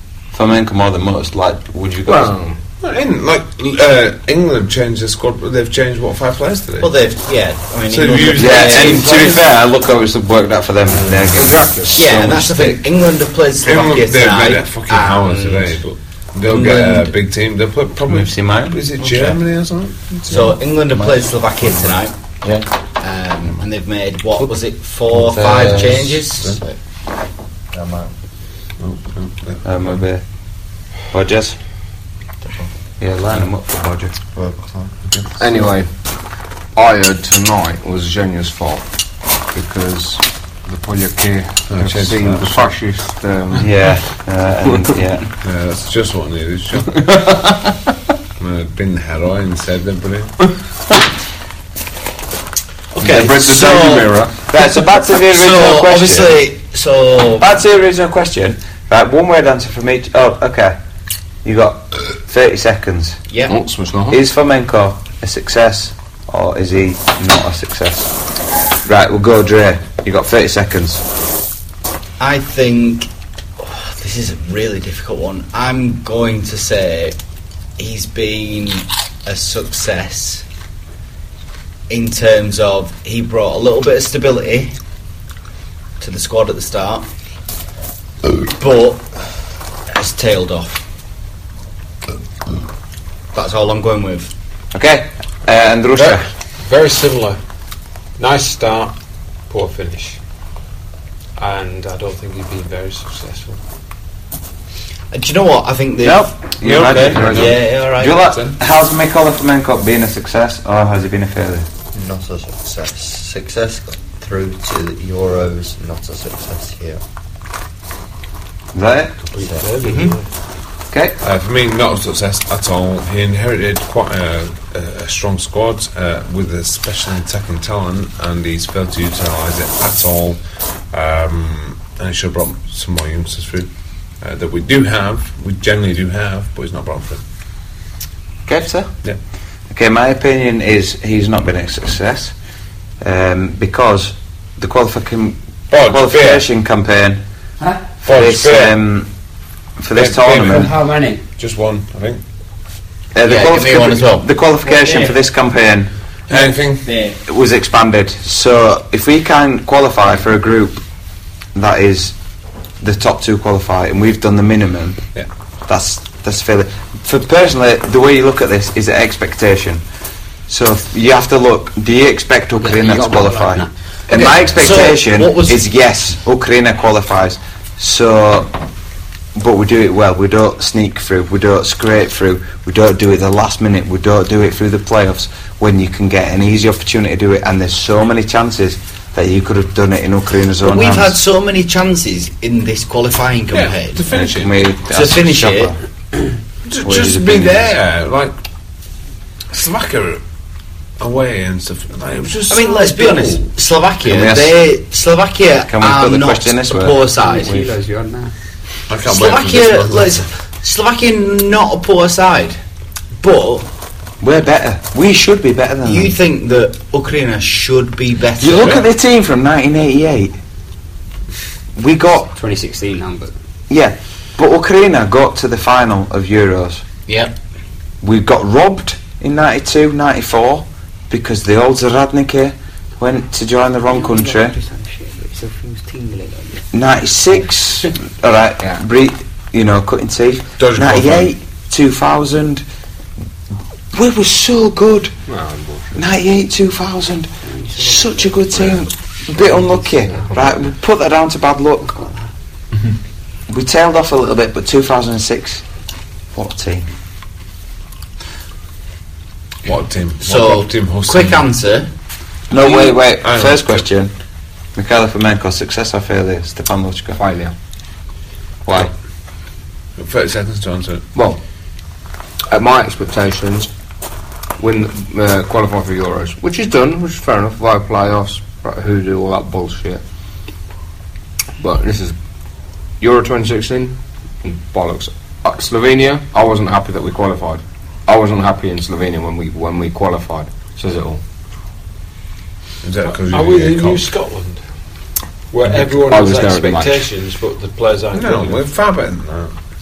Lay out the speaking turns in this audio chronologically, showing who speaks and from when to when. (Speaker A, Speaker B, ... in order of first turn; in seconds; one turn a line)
Speaker A: 0.3-2.4
Speaker B: 2.1-2.6
Speaker C: 2.8-6.9
Speaker D: 6.8-9.5
Speaker C: 7.9-9.4
Speaker A: 8.3-12.8
Speaker C: 10.9-11.3
Speaker B: 11.3-12.0
Speaker D: 11.9-15.8
Speaker C: 13.6-20.6
Speaker D: 16.5-17.1
Speaker A: 18.1-19.4
Speaker D: 20.3-22.1
Speaker A: 20.3-21.3
Speaker A: 22.4-22.7
Speaker D: 23.0-26.6
Speaker C: 25.1-26.6
Speaker A: 25.5-25.9
Speaker E: 27.7-28.1
Speaker C: 28.8-30.0
Speaker A: 29.6-30.2
Speaker A: 31.1-31.6
Speaker E: 32.4-32.7
Speaker A: 33.0-34.2
Speaker E: 34.3-34.9
Speaker C: 35.1-35.4
Speaker B: 35.4-35.9
Speaker B: 36.8-38.9
Speaker B: 39.5-43.7
Speaker C: 41.7-42.7
Speaker A: 43.6-45.2
Speaker C: 45.4-47.2
Speaker C: 48.4-50.5
Speaker D: 53.0-57.5
Speaker B: 53.0-54.4
Speaker A: 54.5-56.4
Speaker A: 57.4-60.8
Speaker A: 61.4-63.2
Speaker D: 63.3-63.6
Speaker B: 63.5-64.2
Speaker A: 64.1-68.1
Speaker A: 68.8-71.0
Speaker D: 72.2-77.2
Speaker D: 77.8-80.5
Speaker D: 81.9-84.7
Speaker D: 86.0-87.1
Speaker D: 88.3-89.0
Speaker D: 89.9-90.9
Speaker D: 93.3-94.3
Speaker A: 94.7-96.3
Speaker F: 96.0-97.4
Speaker F: 98.2-99.0
Speaker F: 99.5-100.2
Speaker F: 101.4-103.6
Speaker D: 105.1-108.4
Speaker A: 106.0-111.7
Speaker C: 106.6-107.6
Speaker E: 111.9-117.0
Speaker A: 118.7-119.2
Speaker F: 119.3-120.3
Speaker E: 119.5-120.1
Speaker A: 120.9-121.2
Speaker C: 121.2-130.4
Speaker C: 130.9-133.7
Speaker C: 134.2-137.2
Speaker A: 138.5-138.9
Speaker A: 139.7-142.3
Speaker A: 143.0-147.2
Speaker C: 145.7-146.5
Speaker G: 147.6-147.9
Speaker C: 148.0-148.8
Speaker A: 148.1-149.1
Speaker A: 149.8-150.7
Speaker C: 149.9-150.8
Speaker G: 150.4-151.2
Speaker C: 151.4-152.2
Speaker A: 153.1-155.9
Speaker D: 153.2-154.3
Speaker G: 154.6-155.2
Speaker C: 156.3-156.9
Speaker G: 156.3-157.2
Speaker A: 157.3-160.8
Speaker A: 161.6-162.2
Speaker A: 162.8-165.0
Speaker A: 165.7-169.8
Speaker A: 170.5-178.5
Speaker G: 172.6-173.7
Speaker D: 174.1-175.7
Speaker A: 179.3-191.2
Speaker D: 190.6-194.0
Speaker C: 193.5-194.7
Speaker A: 194.1-195.8
Speaker D: 194.9-195.7
Speaker C: 196.7-198.3
Speaker A: 196.8-197.8
Speaker C: 199.5-200.2
Speaker C: 201.0-203.5
Speaker D: 202.5-207.6
Speaker A: 204.0-204.6
Speaker A: 205.7-207.5
Speaker G: 207.2-208.3
Speaker C: 208.9-210.3
Speaker D: 209.1-212.6
Speaker D: 213.2-213.7
Speaker A: 214.2-216.2
Speaker D: 215.8-218.8
Speaker A: 218.4-220.4
Speaker A: 221.8-222.3
Speaker G: 222.4-223.3
Speaker A: 223.7-226.8
Speaker D: 227.1-227.3
Speaker A: 228.0-234.6
Speaker G: 233.9-236.6
Speaker A: 236.7-242.6
Speaker C: 240.6-241.3
Speaker A: 243.9-245.1
Speaker B: 245.3-246.0
Speaker A: 245.9-252.0
Speaker G: 247.5-248.8
Speaker G: 249.6-250.3
Speaker B: 250.1-250.6
Speaker G: 251.9-252.2
Speaker A: 253.5-255.6
Speaker A: 256.3-256.9
Speaker C: 259.6-261.5
Speaker D: 260.2-261.9
Speaker A: 262.5-264.1
Speaker C: 262.6-263.8
Speaker A: 264.8-267.2
Speaker B: 267.1-267.5
Speaker A: 268.7-268.9
Speaker C: 270.0-271.0
Speaker B: 271.1-271.4
Speaker B: 272.5-273.7
Speaker B: 274.6-280.0
Speaker B: 281.6-282.2
Speaker B: 283.0-291.2
Speaker C: 292.8-294.1
Speaker F: 293.1-294.6
Speaker F: 295.5-298.6
Speaker B: 296.0-297.1
Speaker C: 298.1-299.5